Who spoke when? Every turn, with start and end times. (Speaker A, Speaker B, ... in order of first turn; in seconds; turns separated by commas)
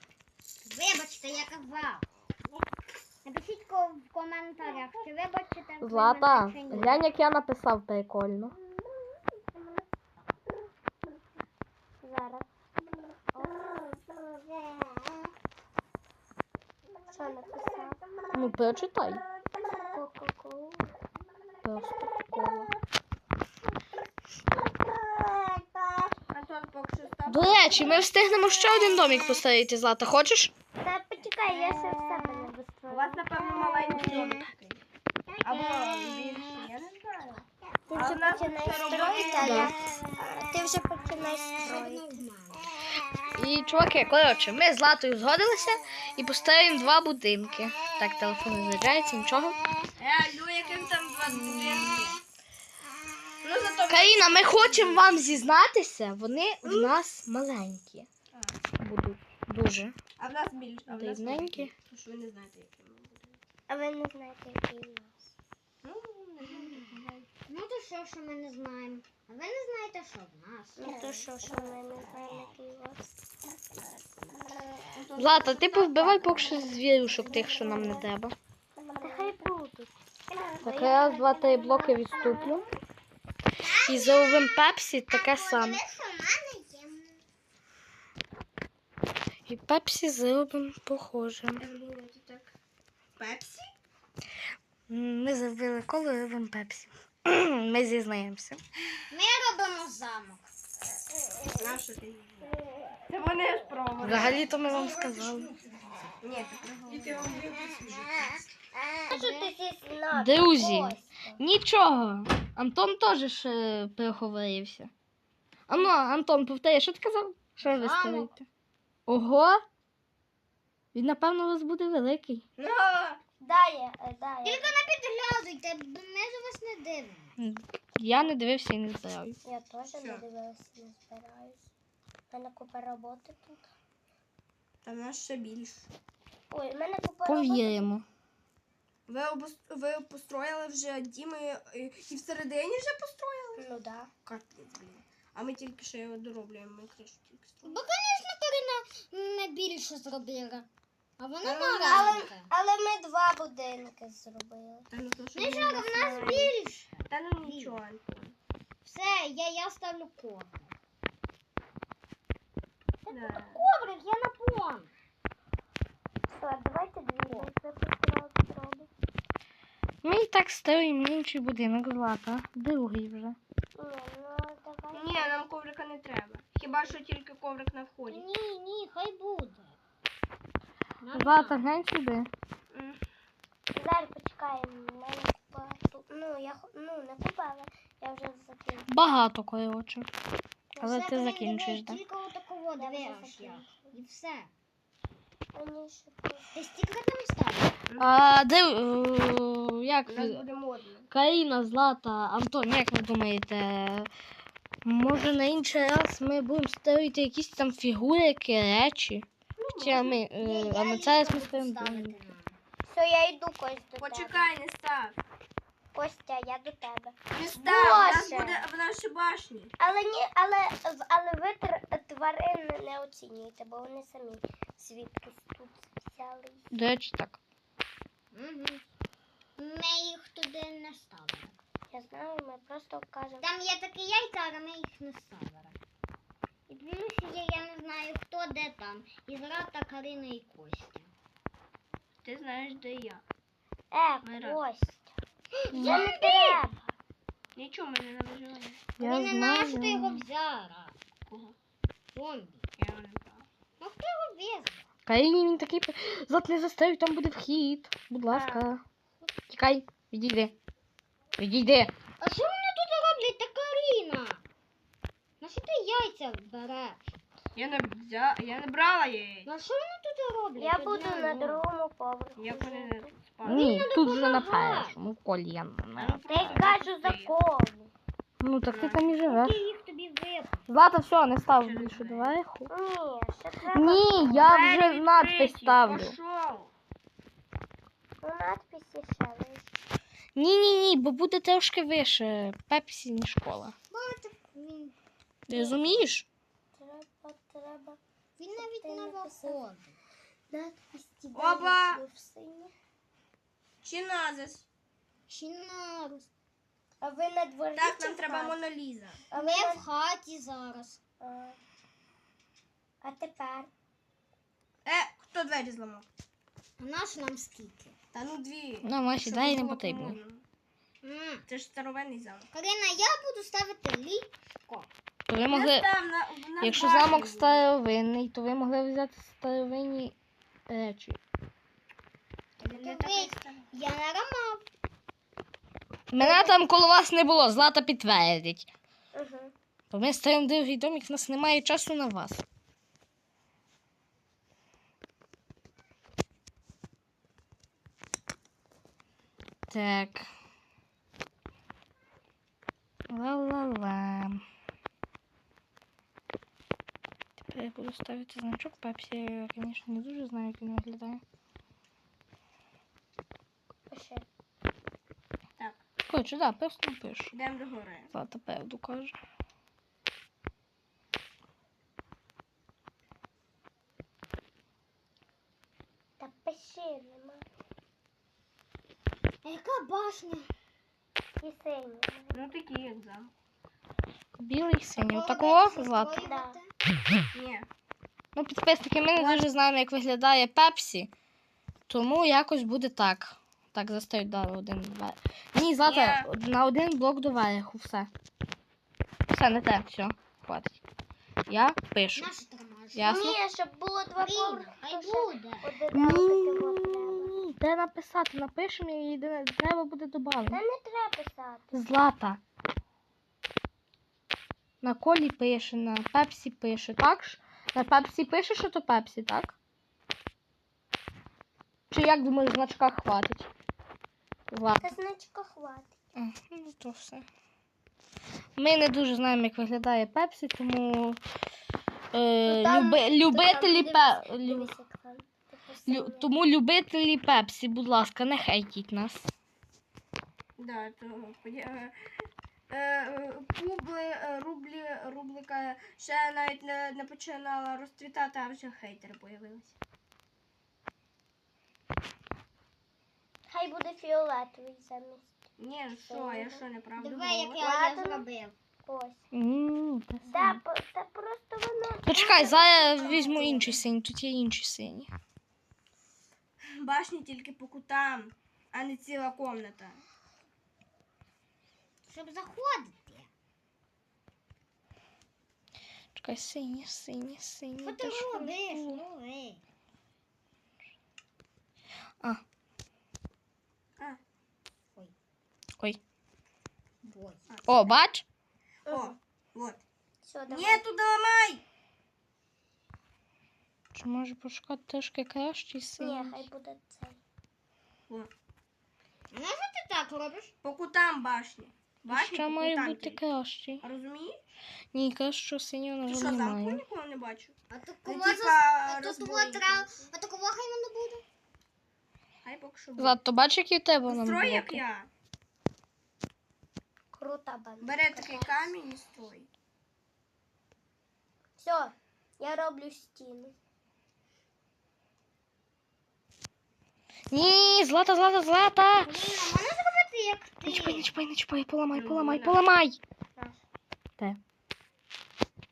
Speaker A: 0.6-2.0, Speaker A: 3.2-7.0, Speaker B: 5.8-8.5, Speaker C: 12.0-12.5, Speaker C: 17.1-18.0, Speaker B: 18.3-19.2, Speaker C: 19.6-20.9, Speaker B: 21.6-22.7, Speaker D: 26.2-28.1, Speaker B: 27.2-30.5, Speaker C: 30.8-34.4, Speaker D: 31.2-31.7, Speaker D: 32.9-34.8, Speaker A: 35.3-35.6, Speaker D: 35.4-39.7, Speaker C: 37.9-42.0, Speaker B: 39.4-39.7, Speaker A: 41.6-42.7, Speaker B: 43.3-49.6, Speaker D: 50.0-52.2, Speaker D: 53.4-55.4, Speaker B: 53.9-58.1, Speaker D: 58.3-58.6, Speaker B: 58.8-59.9, Speaker D: 60.2-63.4, Speaker B: 60.9-61.7, Speaker C: 63.7-65.3, Speaker D: 65.8-67.2, Speaker A: 66.6-66.9, Speaker A: 67.4-70.9, Speaker C: 70.8-73.0, Speaker D: 70.8-71.1, Speaker D: 74.8-78.1, Speaker B: 75.2-78.3, Speaker D: 78.8-79.4, Speaker C: 79.0-79.9, Speaker C: 80.6-82.5, Speaker B: 80.6-82.6, Speaker A: 82.1-82.6, Speaker A: 83.5-87.2, Speaker B: 83.8-85.8, Speaker B: 89.5-91.6, Speaker D: 91.6-92.5, Speaker D: 93.2-93.7, Speaker B: 94.9-98.6, Speaker A: 99.1-100.5, Speaker D: 101.5-102.6, Speaker D: 103.1-104.5, Speaker B: 104.0-105.5, Speaker A: 104.3-106.2, Speaker D: 106.2-107.6, Speaker A: 107.3-109.5, Speaker C: 109.1-111.4, Speaker B: 110.1-114.9, Speaker B: 115.7-118.4, Speaker A: 117.6-118.3, Speaker B: 119.1-119.6, Speaker B: 120.9-122.4, Speaker D: 122.6-123.2, Speaker C: 123.4-124.8, Speaker A: 124.4-127.3, Speaker B: 127.4-129.4, Speaker C: 129.4-131.7, Speaker D: 130.0-130.2, Speaker C: 132.3-133.6, Speaker D: 134.8-135.9, Speaker C: 136.5-137.9, Speaker B: 137.2-138.0, Speaker D: 139.1-143.6, Speaker C: 143.6-144.1, Speaker D: 144.2-147.8, Speaker A: 147.6-150.7, Speaker A: 151.2-152.5, Speaker D: 151.4-152.2, Speaker C: 151.8-154.9, Speaker D: 154.9-156.5, Speaker A: 155.3-157.8, Speaker D: 157.1-158.3, Speaker A: 158.8-160.7, Speaker A: 163.0-164.9, Speaker D: 163.1-163.6, Speaker C: 166.3-168.9, Speaker A: 167.2-167.5, Speaker B: 170.0-173.4, Speaker C: 173.8-175.3, Speaker D: 174.9-178.2, Speaker A: 178.1-179.8, Speaker A: 181.0-181.7, Speaker B: 181.1-182.3, Speaker D: 182.7-183.0, Speaker C: 183.7-188.9, Speaker B: 188.9-190.1, Speaker C: 190.8-191.0, Speaker B: 190.8-192.0, Speaker A: 190.8-194.5, Speaker C: 192.8-193.9, Speaker C: 195.5-196.5, Speaker A: 196.5-197.7, Speaker D: 197.9-198.3, Speaker B: 198.0-200.4, Speaker D: 200.1-201.1, Speaker B: 201.1-204.1, Speaker B: 204.8-209.2, Speaker D: 209.6-210.2, Speaker B: 209.8-212.1, Speaker A: 210.4-212.6, Speaker C: 212.9-214.5, Speaker D: 214.0-215.2, Speaker C: 215.9-218.6, Speaker D: 217.3-219.7, Speaker C: 219.8-226.7, Speaker B: 226.7-227.4, Speaker A: 228.3-228.8, Speaker A: 229.6-231.6, Speaker C: 231.9-233.5, Speaker A: 233.4-235.8, Speaker A: 236.7-241.1, Speaker D: 242.2-243.2, Speaker C: 243.9-245.1, Speaker D: 244.2-244.6, Speaker A: 245.5-246.6, Speaker B: 245.7-246.0, Speaker C: 245.7-246.9, Speaker D: 247.6-248.9, Speaker B: 249.0-250.2, Speaker A: 249.0-250.9, Speaker D: 251.3-251.5, Speaker A: 252.1-252.6, Speaker D: 252.8-253.4, Speaker A: 253.8-254.8, Speaker B: 255.1-258.8, Speaker C: 258.3-258.7, Speaker B: 259.5-260.5, Speaker B: 261.4-261.9, Speaker A: 262.2-264.4, Speaker A: 265.4-267.1, Speaker D: 267.5-269.5, Speaker A: 269.4-271.6, Speaker C: 270.6-273.1, Speaker D: 272.4-273.9, Speaker B: 273.4-276.6, Speaker A: 273.4-274.9, Speaker D: 275.9-277.3, Speaker C: 276.3-277.9, Speaker A: 276.4-276.7, Speaker B: 278.4-279.6, Speaker D: 278.7-279.1, Speaker A: 279.2-280.6, Speaker B: 280.7-282.7, Speaker D: 281.5-282.4, Speaker C: 282.7-284.4, Speaker B: 283.7-286.1, Speaker D: 284.2-286.7, Speaker C: 288.2-289.7, Speaker B: 290.3-293.7, Speaker A: 293.9-294.9, Speaker B: 295.5-296.2, Speaker C: 295.5-295.9, Speaker A: 295.5-296.0, Speaker C: 296.8-298.0, Speaker A: 298.4-299.9, Speaker C: 298.5-299.6, Speaker C: 300.5-302.7, Speaker D: 301.3-302.0, Speaker D: 303.8-304.6, Speaker A: 305.3-306.3, Speaker C: 307.0-308.6, Speaker D: 307.8-309.2, Speaker C: 309.3-309.8, Speaker A: 309.4-311.0, Speaker C: 311.2-311.6, Speaker C: 313.0-313.7, Speaker D: 314.8-316.1, Speaker A: 316.8-317.9, Speaker D: 318.1-320.4, Speaker B: 318.8-320.2, Speaker A: 321.0-321.4, Speaker D: 321.5-322.5, Speaker A: 322.5-324.9, Speaker B: 325.3-325.9, Speaker D: 325.5-327.6, Speaker B: 326.6-330.1, Speaker B: 330.7-331.2, Speaker A: 332.6-334.6, Speaker D: 332.6-333.7, Speaker B: 336.1-338.7, Speaker C: 336.2-336.6, Speaker C: 339.1-339.5, Speaker B: 339.9-342.4, Speaker B: 349.7-350.3, Speaker B: 353.1-354.4, Speaker B: 357.4-361.2, Speaker C: 363.9-364.2, Speaker B: 366.1-367.3, Speaker D: 367.3-368.1, Speaker B: 368.1-369.1, Speaker C: 376.2-377.4, Speaker A: 379.4-380.5, Speaker C: 381.4-382.4, Speaker D: 382.3-383.3, Speaker B: 384.4-386.2, Speaker A: 384.9-386.7, Speaker C: 386.2-386.6, Speaker D: 387.3-387.7, Speaker B: 388.3-391.1, Speaker D: 389.1-389.5, Speaker B: 391.9-398.1, Speaker D: 395.8-396.3, Speaker B: 399.3-400.8, Speaker B: 401.5-402.3, Speaker A: 402.1-403.2, Speaker B: 402.9-403.4, Speaker C: 403.0-407.4, Speaker A: 404.2-405.7, Speaker B: 405.9-410.6, Speaker C: 410.5-411.8, Speaker B: 411.7-412.4, Speaker B: 414.8-419.6, Speaker B: 421.9-423.5, Speaker B: 424.5-424.9, Speaker C: 424.8-425.9, Speaker B: 426.1-427.2, Speaker B: 428.6-431.2, Speaker B: 432.1-434.7, Speaker C: 432.4-436.3, Speaker B: 435.9-439.3, Speaker D: 440.6-441.9, Speaker D: 442.7-449.7, Speaker C: 453.5-455.4, Speaker D: 455.6-457.6, Speaker C: 455.9-456.6, Speaker A: 457.0-458.5, Speaker C: 457.6-458.2, Speaker C: 458.8-459.2, Speaker B: 459.3-460.6, Speaker C: 460.2-463.8, Speaker B: 462.1-465.1, Speaker D: 462.9-463.8, Speaker D: 466.7-470.0, Speaker A: 472.0-473.3, Speaker B: 476.1-479.0, Speaker A: 477.8-479.6, Speaker A: 487.0-487.4, Speaker D: 487.5-487.9, Speaker B: 487.7-488.2, Speaker C: 488.9-489.1, Speaker D: 488.9-489.8, Speaker C: 490.2-490.8, Speaker D: 490.5-491.6, Speaker B: 493.9-496.5, Speaker C: 496.0-497.2, Speaker A: 499.3-500.5, Speaker D: 500.6-503.2, Speaker B: 502.1-503.8, Speaker D: 503.8-504.4, Speaker B: 504.9-506.8, Speaker D: 506.1-507.5, Speaker A: 507.7-511.2, Speaker D: 508.0-509.9, Speaker D: 512.4-513.2, Speaker B: 513.0-514.8, Speaker D: 514.0-515.1, Speaker C: 517.1-518.7, Speaker D: 517.8-519.5, Speaker C: 521.6-523.5, Speaker B: 527.3-529.3, Speaker A: 529.0-531.1, Speaker B: 530.6-533.0, Speaker D: 531.9-532.6, Speaker C: 533.4-533.6